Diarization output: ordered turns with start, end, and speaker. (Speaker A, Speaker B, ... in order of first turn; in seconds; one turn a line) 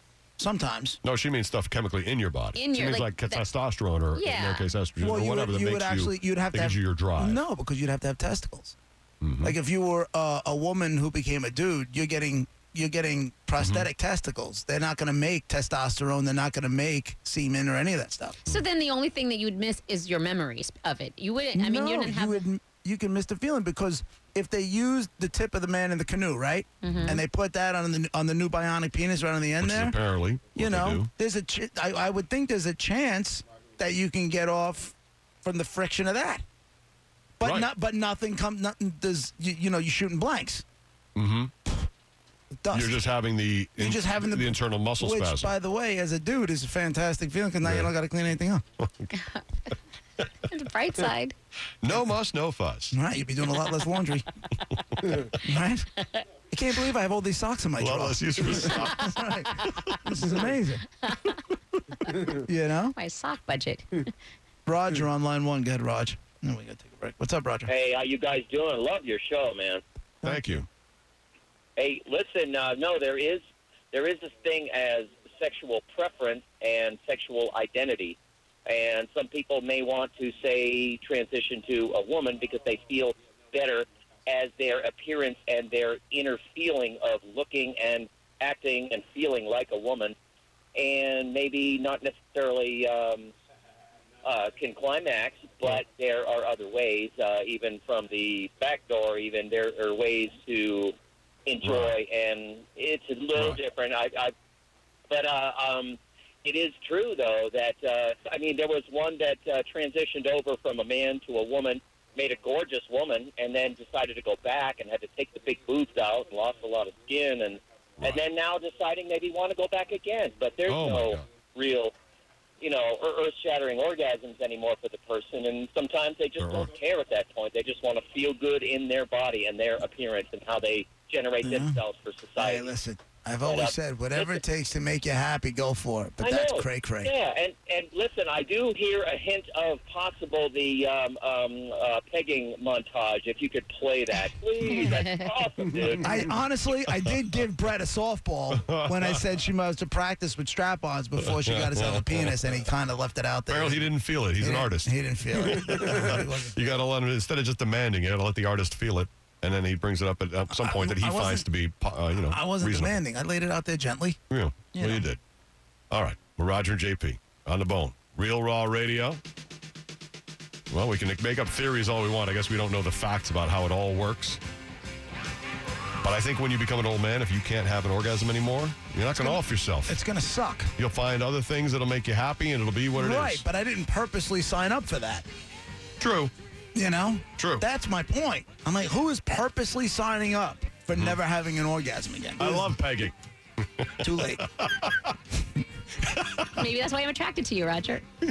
Speaker A: 0.4-1.0
Speaker B: 1.0-7.4
Speaker C: 2.5-3.4
Speaker C: 4.1-4.7
Speaker A: 5.0-8.8
Speaker B: 9.2-9.6
Speaker A: 9.4-18.4
Speaker B: 13.6-13.9
Speaker C: 18.5-22.4
Speaker A: 21.6-30.0
Speaker C: 26.8-27.2
Speaker B: 26.8-27.2
Speaker B: 29.6-31.1
Speaker A: 30.5-36.4
Speaker A: 37.4-40.6
Speaker B: 37.4-37.7
Speaker B: 41.2-41.5
Speaker A: 42.5-43.0
Speaker B: 42.7-45.5
Speaker A: 43.8-48.6
Speaker B: 47.6-47.9
Speaker C: 49.1-49.7
Speaker C: 50.5-51.4
Speaker B: 51.8-53.0
Speaker A: 52.9-54.3
Speaker A: 55.4-55.9
Speaker A: 56.5-60.8
Speaker B: 57.8-60.0
Speaker C: 61.0-61.4
Speaker A: 62.4-63.0
Speaker C: 62.9-64.1
Speaker A: 64.7-67.7
Speaker D: 67.7-69.8
Speaker A: 70.2-70.7
Speaker B: 70.2-70.7
Speaker D: 71.8-90.2
Speaker D: 90.8-93.3
Speaker D: 94.2-101.0
Speaker D: 101.5-104.3
Speaker B: 101.6-102.0
Speaker D: 105.1-121.9
Speaker B: 120.7-121.2
Speaker D: 122.6-132.7
Speaker B: 126.4-126.7
Speaker A: 131.4-131.8
Speaker A: 132.4-137.1
Speaker D: 133.4-134.4
Speaker D: 136.2-146.3
Speaker C: 144.6-145.3
Speaker A: 146.0-156.7
Speaker B: 146.9-147.2
Speaker B: 148.5-149.2
Speaker B: 151.2-152.4
Speaker B: 153.5-163.0
Speaker A: 160.5-161.5
Speaker A: 162.3-164.2
Speaker B: 164.3-165.2
Speaker A: 164.7-165.1
Speaker B: 165.9-169.2
Speaker B: 170.7-174.4
Speaker B: 176.0-180.0
Speaker A: 179.2-180.7
Speaker B: 180.8-183.5
Speaker A: 182.9-185.3
Speaker B: 186.0-186.3
Speaker A: 186.8-192.7
Speaker B: 187.4-187.7
Speaker B: 190.9-191.2
Speaker B: 192.4-193.2
Speaker B: 193.8-195.1
Speaker A: 194.0-194.5
Speaker B: 196.2-196.4
Speaker C: 196.5-198.0